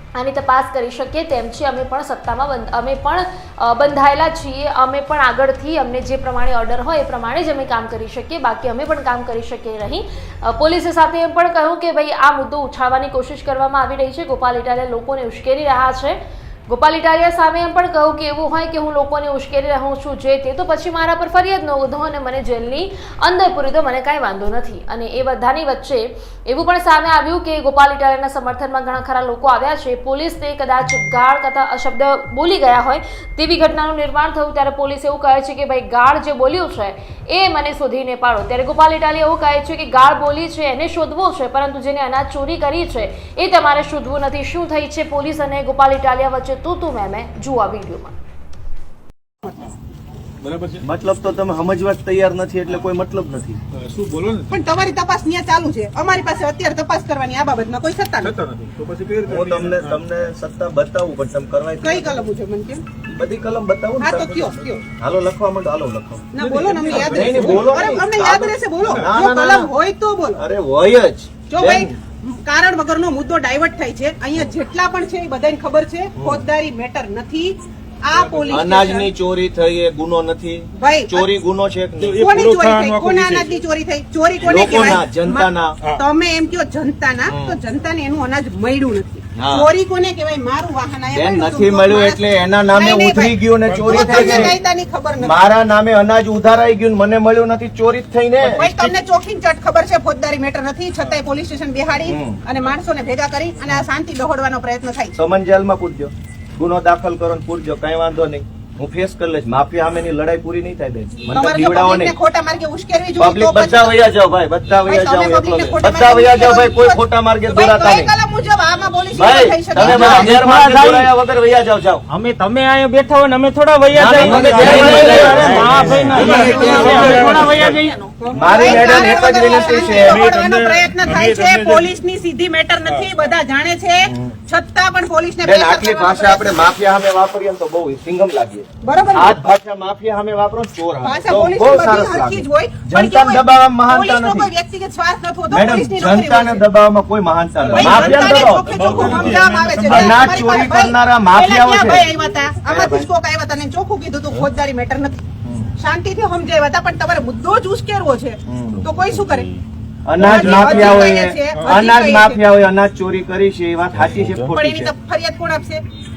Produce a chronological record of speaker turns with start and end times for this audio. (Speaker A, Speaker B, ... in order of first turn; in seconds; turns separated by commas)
Speaker A: 0.2-48.2, Speaker B: 50.4-50.9, Speaker C: 50.8-53.6, Speaker B: 53.7-54.6, Speaker D: 54.5-58.3, Speaker B: 58.2-60.0, Speaker C: 59.3-62.2, Speaker D: 61.8-62.8, Speaker C: 63.1-64.2, Speaker D: 64.0-64.8, Speaker B: 64.2-64.8, Speaker C: 65.0-66.3, Speaker D: 66.3-70.4, Speaker B: 66.4-68.0, Speaker C: 66.9-69.7, Speaker B: 68.8-69.1, Speaker C: 70.3-71.9, Speaker D: 71.5-79.1, Speaker C: 76.2-76.4, Speaker B: 78.1-78.6, Speaker C: 78.5-82.2, Speaker D: 80.8-81.3, Speaker B: 82.0-83.6, Speaker D: 82.2-95.4, Speaker C: 84.4-85.8, Speaker C: 87.3-87.6, Speaker C: 89.3-89.7, Speaker C: 91.1-94.6, Speaker B: 93.6-94.5, Speaker C: 95.2-98.9, Speaker D: 98.5-105.2, Speaker C: 102.0-102.4, Speaker C: 105.2-112.2, Speaker D: 111.3-114.0, Speaker C: 113.2-118.1, Speaker D: 114.9-120.3, Speaker C: 119.1-122.0, Speaker E: 119.8-121.1, Speaker E: 122.1-128.1, Speaker C: 123.9-127.3, Speaker B: 124.6-125.5, Speaker B: 126.1-127.8, Speaker D: 128.2-136.8, Speaker C: 128.3-130.3, Speaker B: 129.7-132.0, Speaker B: 132.8-133.2, Speaker C: 134.1-134.3, Speaker C: 135.4-144.5, Speaker D: 138.8-139.4, Speaker D: 141.0-146.6, Speaker C: 145.5-149.3, Speaker B: 147.6-150.7, Speaker D: 147.7-155.2, Speaker C: 149.8-152.1, Speaker C: 152.7-153.1, Speaker C: 155.4-155.7, Speaker D: 155.8-159.5, Speaker C: 158.5-158.9, Speaker C: 160.1-164.9, Speaker B: 160.2-161.8, Speaker D: 160.2-162.4, Speaker D: 164.5-165.8